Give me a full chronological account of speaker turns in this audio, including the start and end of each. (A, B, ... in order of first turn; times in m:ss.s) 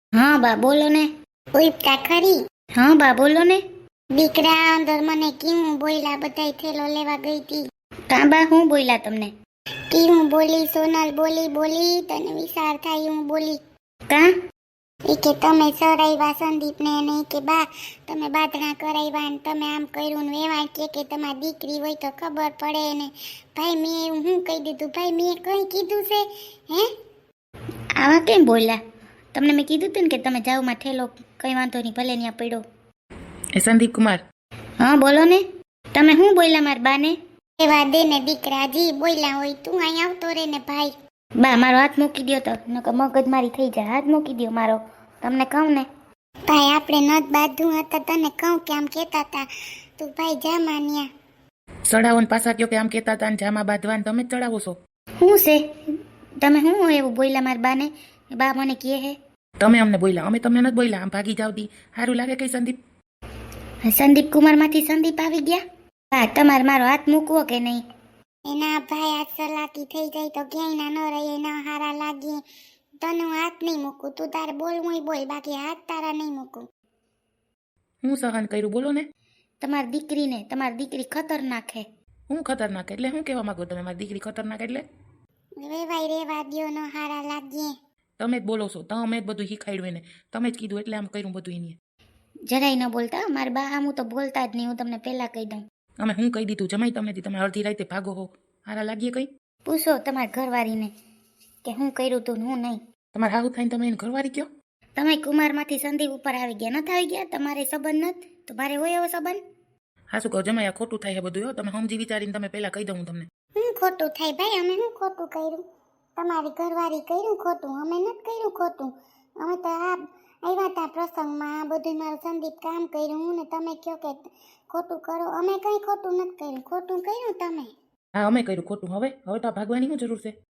0:00.2-0:01.1 A
0:01.6-0:02.4 B
0:02.8-0:03.6 A
0:04.2-0:07.6 B
0:08.1-0:09.3 A
0:09.9-0:13.6 B
0:15.1-0:26.9 B
0:28.0-0:28.8 A
0:29.3-0:32.6 A
0:33.6-0:34.2 C
0:34.8-0:35.4 A
0:35.9-0:37.2 A
0:37.6-0:40.9 B
0:41.4-0:45.9 A
0:46.5-0:49.5 B
0:50.0-0:51.1 B
0:51.9-0:54.8 C
0:55.2-0:55.6 A
0:56.4-0:59.2 A
0:59.6-1:02.8 C
1:03.8-1:05.6 A
1:06.1-1:07.8 A
1:08.5-1:12.4 B
1:13.0-1:16.6 B
1:18.0-1:19.1 C
1:19.6-1:21.8 A
1:22.3-1:24.8 C
1:25.6-1:27.7 B
1:28.2-1:31.8 C
1:32.5-1:35.6 A
1:36.0-1:39.3 C
1:39.7-1:40.9 A
1:41.6-1:42.8 A
1:43.1-1:44.5 C
1:45.0-1:49.4 A
1:50.1-1:53.3 C
1:53.6-1:55.6 B
1:56.2-2:07.7 B
2:08.2-2:10.3 C